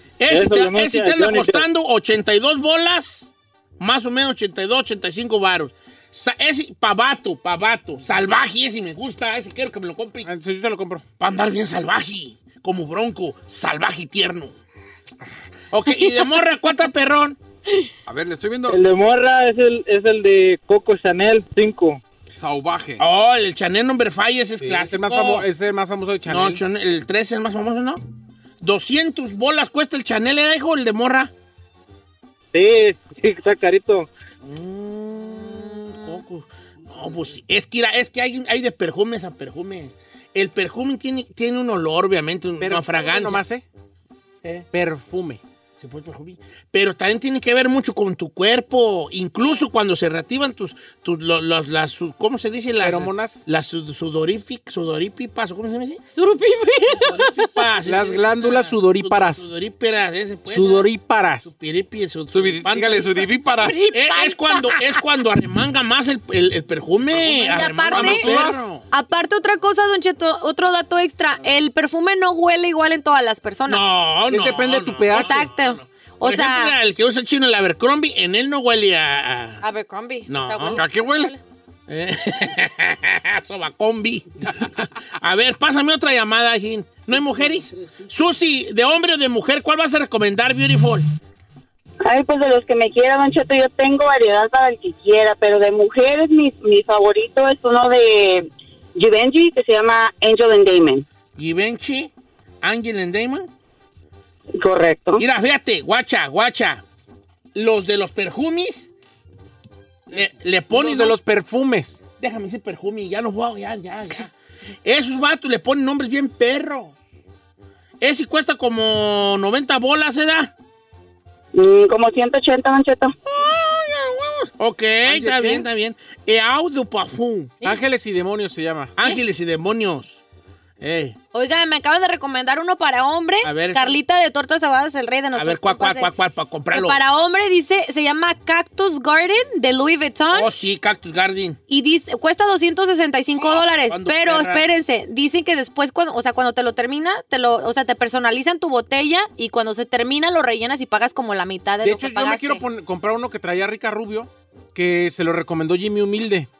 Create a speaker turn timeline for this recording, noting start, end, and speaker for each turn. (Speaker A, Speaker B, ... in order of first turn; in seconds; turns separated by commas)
Speaker A: 0.2-10.3, Speaker B: 0.3-1.6, Speaker C: 10.2-11.0, Speaker A: 11.2-14.5, Speaker A: 15.7-17.4, Speaker D: 16.0-16.3, Speaker E: 18.1-18.8, Speaker B: 18.7-22.0, Speaker E: 22.4-23.0, Speaker A: 23.0-25.4, Speaker C: 24.6-26.6, Speaker A: 26.3-28.0, Speaker A: 28.6-31.3, Speaker B: 32.5-34.1, Speaker A: 34.4-43.4, Speaker D: 35.2-36.2, Speaker C: 42.6-43.6, Speaker C: 44.7-45.4, Speaker A: 45.8-56.0, Speaker C: 52.8-53.4, Speaker D: 56.1-57.5, Speaker A: 56.9-60.9, Speaker C: 57.9-59.5, Speaker C: 60.5-61.5, Speaker A: 61.4-63.3, Speaker E: 62.3-63.9, Speaker D: 63.6-64.9, Speaker A: 63.9-68.8, Speaker D: 67.2-68.3, Speaker E: 67.9-68.6, Speaker D: 68.9-73.8, Speaker A: 73.7-79.6, Speaker C: 74.3-75.5, Speaker D: 75.1-76.8, Speaker D: 79.6-81.4, Speaker A: 80.3-80.8, Speaker E: 80.8-81.3, Speaker A: 81.9-91.1, Speaker F: 92.0-101.0, Speaker A: 101.4-103.5, Speaker F: 104.6-105.2, Speaker A: 105.2-106.8, Speaker A: 107.5-108.9, Speaker A: 110.1-111.2, Speaker C: 110.7-112.0, Speaker A: 112.2-114.3, Speaker A: 114.8-117.0, Speaker A: 118.0-120.5, Speaker F: 121.5-123.1, Speaker A: 123.2-127.5, Speaker E: 125.1-125.6, Speaker C: 127.6-128.9, Speaker A: 129.0-130.2, Speaker A: 130.8-131.2, Speaker D: 131.3-136.1, Speaker A: 133.4-134.0, Speaker A: 135.3-137.0, Speaker D: 136.7-140.5, Speaker A: 140.3-141.6, Speaker D: 141.7-152.6, Speaker A: 143.8-144.6, Speaker C: 151.8-156.5